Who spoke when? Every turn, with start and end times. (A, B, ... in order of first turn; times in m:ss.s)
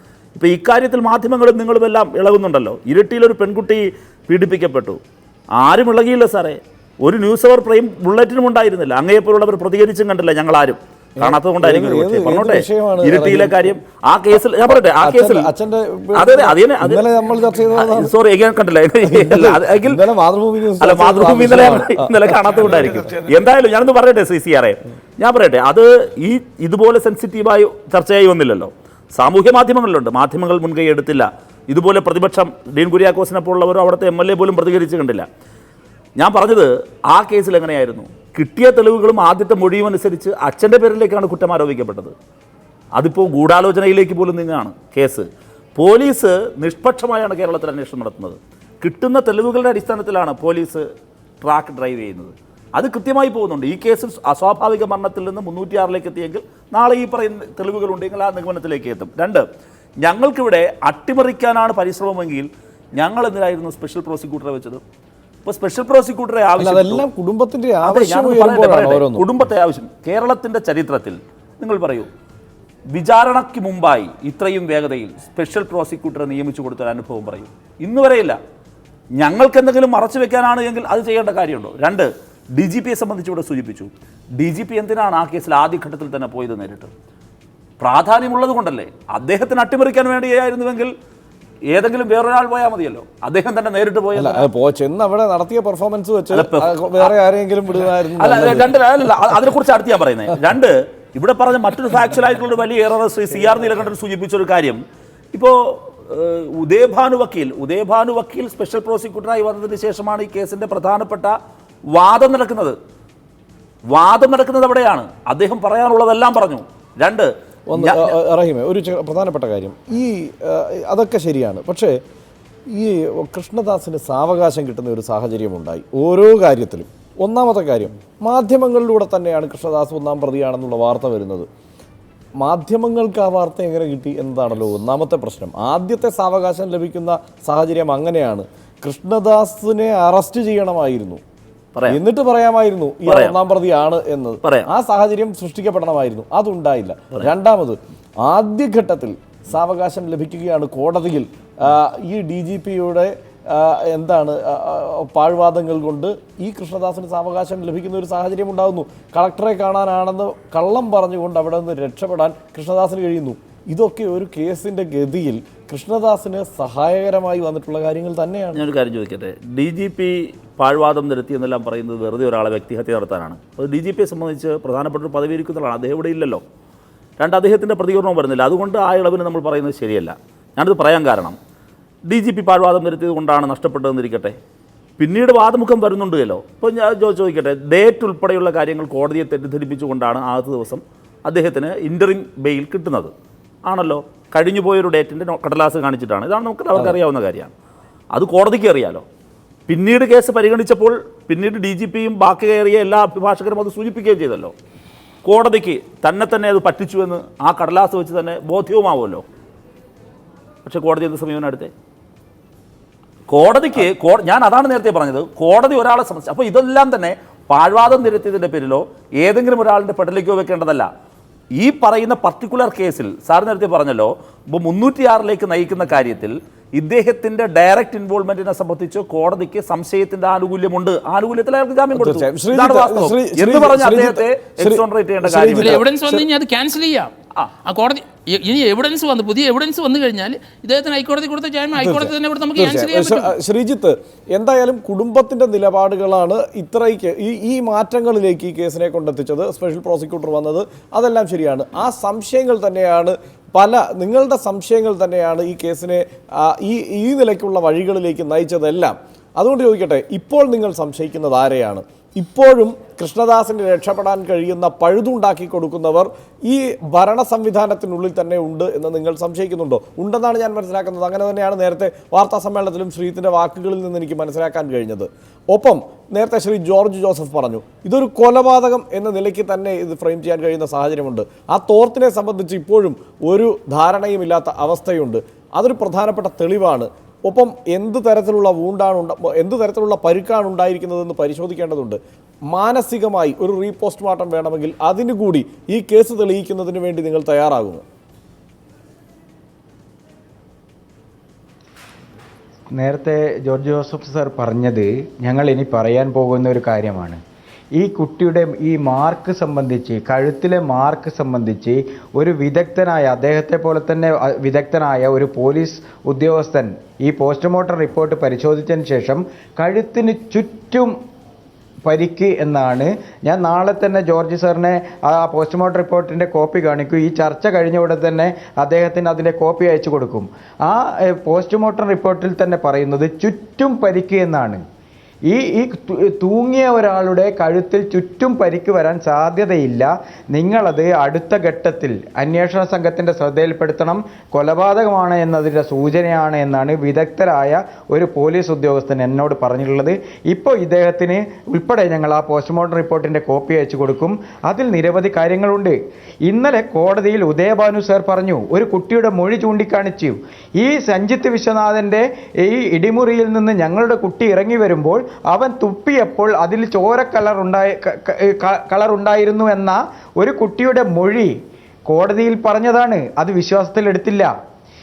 0:00.3-0:05.0 A
0:05.6-0:15.5 A
0:11.2-0:13.7 B
0:15.0-0:18.1 B
0:16.1-0:17.0 A
0:17.8-0:20.0 A
0:19.0-0:22.6 B
0:20.8-0:35.2 A
0:36.2-0:42.1 A
0:43.0-0:50.8 A
0:51.4-0:59.4 A
1:00.0-1:04.8 A
1:05.4-1:07.0 A
1:06.6-1:09.3 B
1:07.8-1:12.1 A
1:12.9-1:18.4 A
1:19.2-1:26.9 A
1:27.8-1:30.9 A
1:31.7-1:34.5 A
1:34.1-1:38.8 B
1:36.3-1:37.1 A
1:38.0-1:44.8 A
1:45.3-1:51.3 A
1:51.9-1:52.7 A
1:53.9-1:58.2 A
1:57.7-2:02.0 B
2:02.7-2:11.5 B
2:12.4-2:21.2 B
2:21.7-2:22.0 A
2:21.9-2:48.6 B
2:23.0-2:23.4 A
2:24.4-2:24.7 A
2:48.5-2:56.4 A
2:57.2-3:01.4 A
3:02.1-3:04.4 A
3:05.0-3:13.1 A
3:13.6-3:17.5 A
3:18.1-3:19.0 A
3:19.7-3:24.5 A
3:25.2-3:29.2 A
3:30.6-3:31.7 A
3:33.3-3:40.9 A
3:41.6-3:55.8 A
3:51.9-3:56.2 B
3:55.5-3:57.1 C
3:57.6-4:03.3 C
4:01.8-4:52.0 B
4:52.5-4:57.8 B
5:02.7-5:07.2 D
5:07.7-5:20.9 D
5:21.8-5:34.6 D
5:35.3-6:11.3 D
6:11.9-6:14.3 D